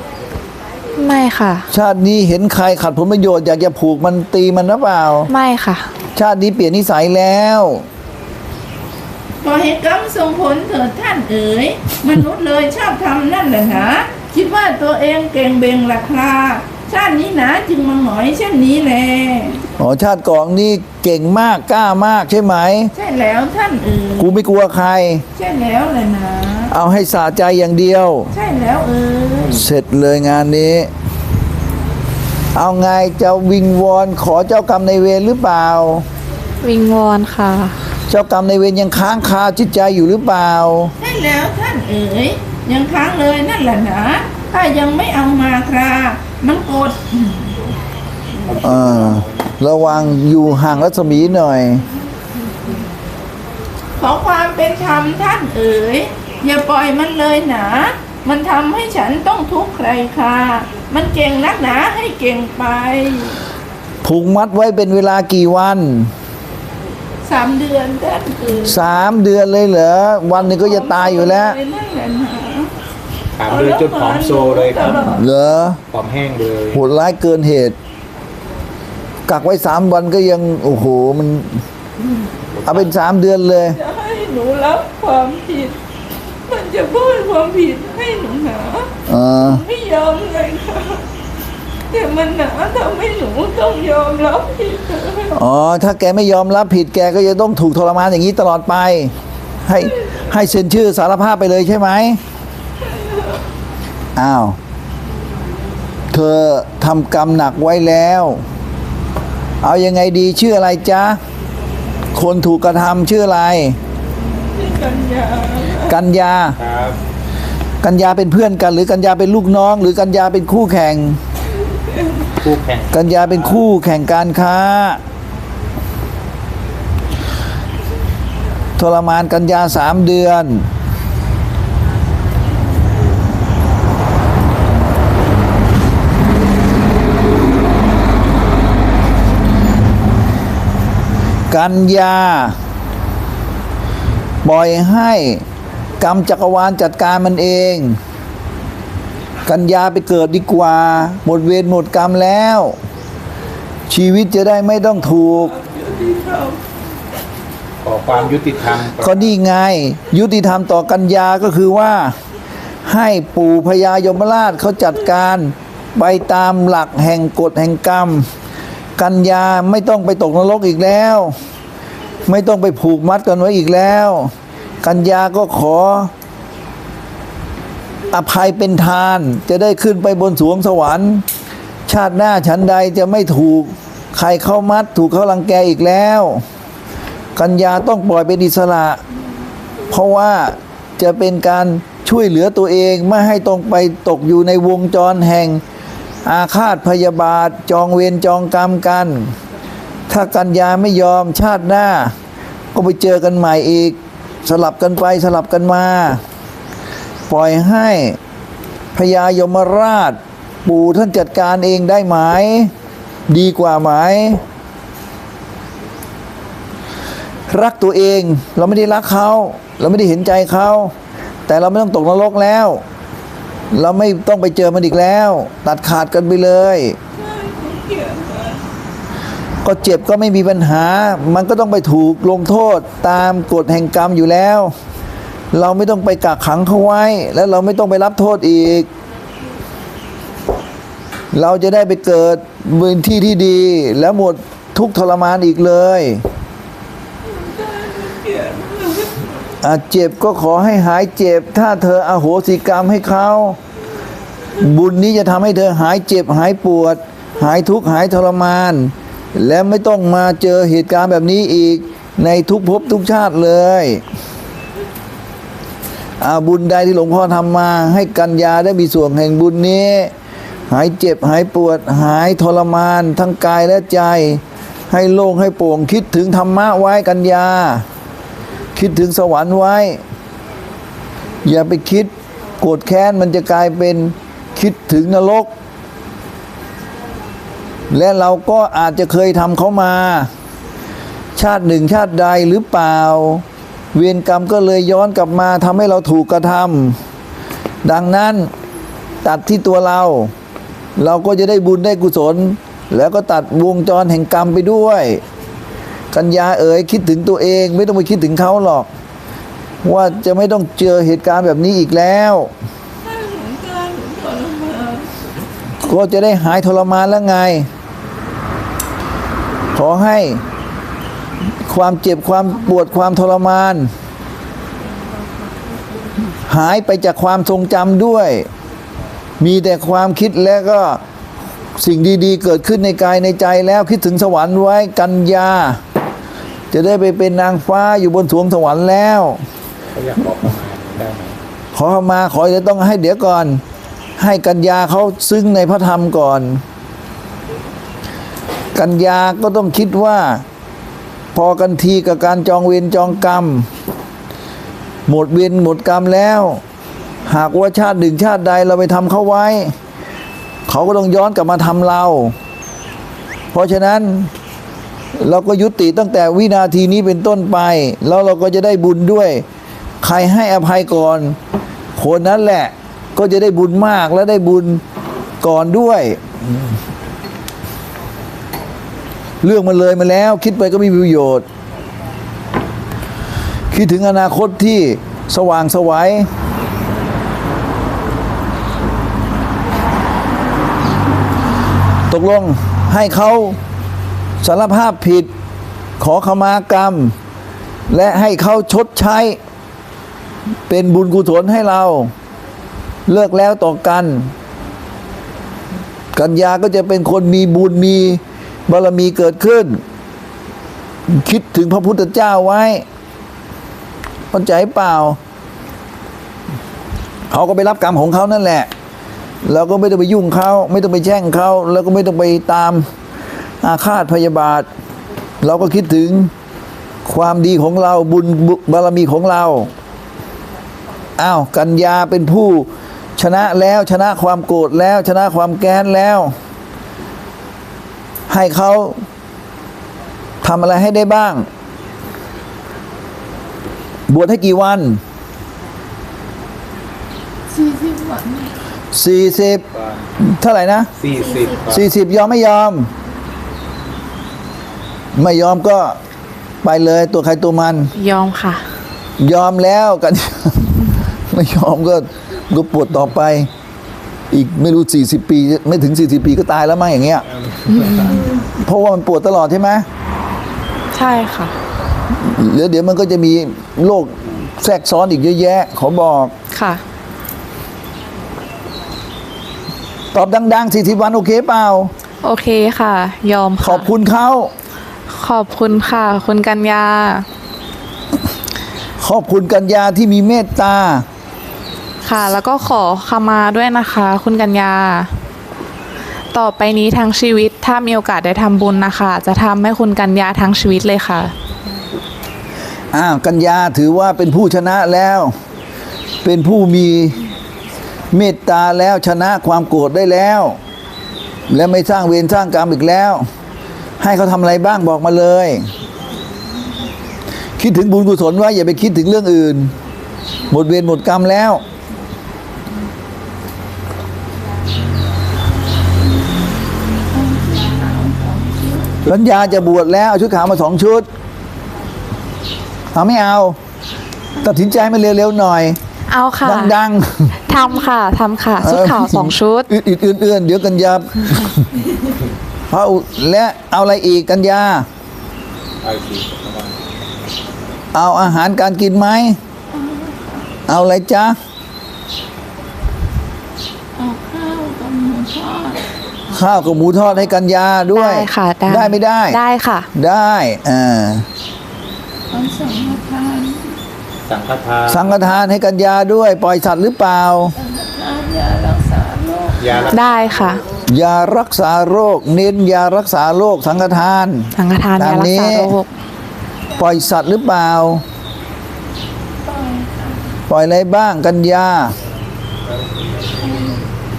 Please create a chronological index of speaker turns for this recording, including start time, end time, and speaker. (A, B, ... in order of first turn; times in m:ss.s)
0:01.0-0:01.7 A
0:01.7-0:05.3 B
0:05.3-0:05.9 A
0:06.2-0:07.9 B
0:09.4-0:19.6 C
0:19.8-0:22.9 B
0:22.9-0:24.4 C
0:24.2-0:25.2 B
0:25.4-0:26.7 C
0:26.7-0:28.3 B
0:28.3-0:29.6 C
0:29.6-0:30.9 B
0:32.6-0:36.1 B
0:36.6-0:37.8 A
0:38.1-0:40.9 B
0:41.0-0:47.5 C
0:48.4-0:49.5 D
0:48.6-0:51.8 B
0:54.0-1:03.4 C
1:04.0-1:06.1 B
1:07.2-1:08.8 C
1:08.7-1:11.6 B
1:10.4-1:12.7 C
1:13.4-1:15.0 D
1:13.5-1:15.2 C
1:14.9-1:15.8 B
1:15.9-1:16.8 D
1:16.7-1:17.8 B
1:19.3-1:21.6 B
1:22.6-1:22.9 D
1:22.7-1:23.8 B
1:23.7-1:25.8 C
1:26.5-1:28.9 C
1:29.1-1:29.6 B
1:29.4-1:31.1 C
1:31.9-1:35.4 C
1:35.3-1:39.1 B
1:39.7-1:42.2 B
1:42.9-1:43.3 C
1:44.2-1:44.6 B
1:46.1-1:48.4 B
1:49.6-1:51.2 B
1:52.1-1:53.8 B
1:54.6-1:55.9 C
1:55.8-1:56.6 B
1:56.6-1:57.0 D
1:57.8-2:01.2 B
2:02.4-2:03.6 D
2:02.9-2:05.0 B
2:08.8-2:10.7 B
2:21.5-2:22.6 B
2:24.4-2:25.4 B
2:26.0-2:28.0 B
2:29.5-2:32.8 B
2:33.9-2:35.6 B
2:35.6-2:36.6 C
2:37.8-2:39.3 D
2:39.0-2:42.2 B
2:42.8-2:48.3 B
2:49.0-2:51.4 B
2:52.3-2:56.1 B
2:58.1-3:01.2 B
3:01.9-3:06.4 B
3:07.4-3:09.0 B
3:09.9-3:15.6 B
3:16.2-3:19.3 B
3:20.1-3:22.1 B
3:22.7-3:26.2 B
3:27.3-3:28.2 B
3:29.0-3:32.7 B
3:33.3-3:34.4 B
3:37.5-3:40.9 B
3:41.5-3:42.8 B
3:43.7-3:47.0 B
3:47.2-3:48.6 C
3:49.6-3:54.7 B
3:55.5-3:58.9 B
4:01.3-4:06.2 B
4:07.3-4:09.2 C
4:09.6-4:13.6 B
4:14.6-4:24.0 B
4:26.2-4:30.1 B
4:30.7-4:37.8 B
4:38.8-4:40.0 B
4:41.4-4:45.5 B
4:47.9-4:50.3 B
4:51.4-4:57.0 B
4:57.8-4:58.5 B
4:59.2-5:00.3 B
5:01.0-5:05.2 B
5:06.1-5:08.9 B
5:09.8-5:12.5 B
5:13.0-5:15.1 C
5:15.8-5:17.7 B
5:19.7-5:20.4 B
5:21.7-5:23.9 B
5:26.5-5:28.5 B
5:29.4-5:31.0 B
5:31.8-5:35.8 B
5:36.7-5:39.4 B
5:39.9-5:41.4 D
5:41.7-5:43.6 B
5:44.2-5:46.6 B
5:48.8-5:50.4 B
5:51.3-5:53.7 B
5:55.1-5:56.6 B
5:57.3-5:59.7 B
6:00.7-6:02.3 B
6:03.5-6:04.3 B
6:05.2-6:09.4 B
6:10.0-6:11.4 B
6:12.0-6:14.8 B
6:15.4-6:16.8 B
6:19.4-6:21.4 B
6:23.7-6:26.3 B
6:32.1-6:33.6 B
6:34.4-6:35.3 B
6:36.0-6:37.1 B
6:37.9-6:39.4 B
6:40.7-6:42.1 B
6:43.1-6:44.3 B
6:46.1-6:49.8 B
6:51.1-6:52.8 B
6:54.3-6:55.2 B
6:57.3-6:58.7 B
6:59.4-7:02.9 B
7:03.6-7:04.7 B
7:05.4-7:06.3 B
7:07.1-7:09.7 B
7:11.2-7:16.3 B
7:18.3-7:19.0 B
7:20.4-7:21.5 B
7:24.1-7:25.0 B
7:27.5-7:28.5 C
7:28.9-7:29.6 B
7:29.7-7:30.0 D
7:30.2-7:30.9 B
7:31.0-7:31.9 D
7:31.7-7:32.9 B
7:35.2-7:36.0 B
7:36.6-7:37.9 B
7:38.0-7:38.6 A
7:39.2-7:43.5 B
7:44.3-7:47.2 B
7:47.8-7:48.2 A
7:48.6-7:49.9 B
7:50.9-7:51.5 A
7:52.1-7:56.3 B
7:56.5-7:56.8 A
8:00.1-8:01.9 B
8:02.2-8:03.9 A
8:03.6-8:04.5 B
8:05.1-8:07.3 A
8:09.0-8:11.0 B
8:12.0-8:15.1 A
8:16.3-8:21.3 A
8:22.9-8:25.3 B
8:26.2-8:27.2 B
8:28.1-8:30.6 B
8:31.5-8:33.3 B
8:34.0-8:35.7 B
8:37.6-8:39.7 B
8:40.5-8:41.6 B
8:47.1-8:48.9 C
8:49.1-8:51.1 B
8:52.9-8:53.6 B
8:54.4-8:55.8 B
8:56.1-8:56.7 A
8:56.4-8:57.4 B
8:57.5-8:59.7 A
8:58.6-9:01.7 B
9:02.7-9:04.9 B
9:05.8-9:06.8 D
9:07.9-9:09.4 B
9:09.7-9:10.4 C
9:10.7-9:11.4 B
9:14.0-9:15.9 C
9:16.3-9:19.4 B
9:17.9-9:19.9 A
9:20.0-9:21.3 B
9:22.3-9:23.7 C
9:24.3-9:25.2 D
9:24.9-9:27.6 B
9:27.6-9:30.0 C
9:29.6-9:30.5 D
9:29.9-9:30.6 A
9:30.9-9:35.7 B
9:34.6-9:35.9 A
9:36.8-9:38.0 B
9:39.4-9:40.3 C
9:40.5-9:41.9 B
9:43.4-9:43.8 C